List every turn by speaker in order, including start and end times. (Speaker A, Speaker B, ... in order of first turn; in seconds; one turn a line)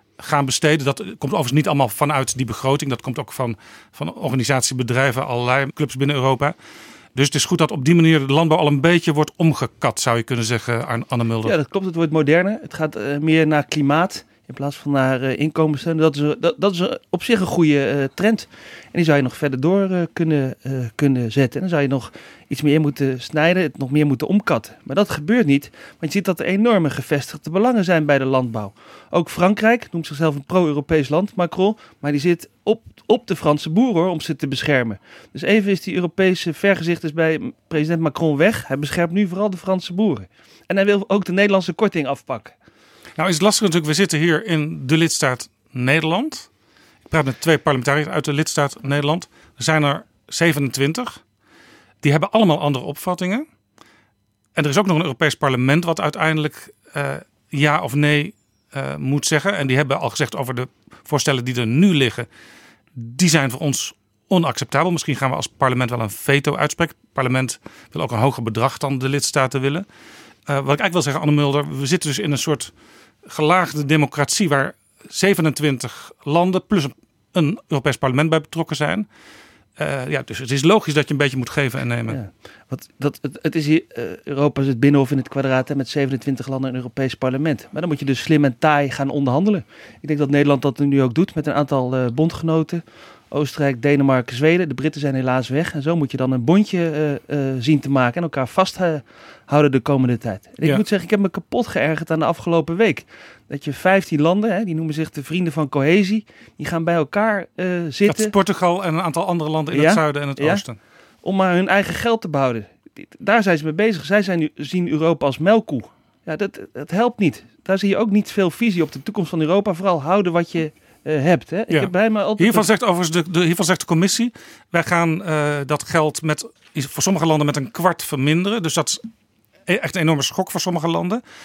Speaker A: 0.2-6.5
Speaker A: 7.2-11.6
Speaker B: 11.4-42.5
Speaker A: 43.2-46.5
Speaker A: 47.1-51.2
Speaker A: 52.0-53.5
Speaker A: 54.5-62.3
Speaker A: 63.0-69.9
Speaker A: 70.5-72.7
Speaker A: 73.3-79.1
Speaker A: 79.8-82.2
Speaker B: 82.1-108.3
Speaker A: 108.1-110.8
Speaker B: 109.7-110.6
Speaker B: 111.2-122.7
Speaker A: 121.7-129.0
Speaker A: 129.7-131.2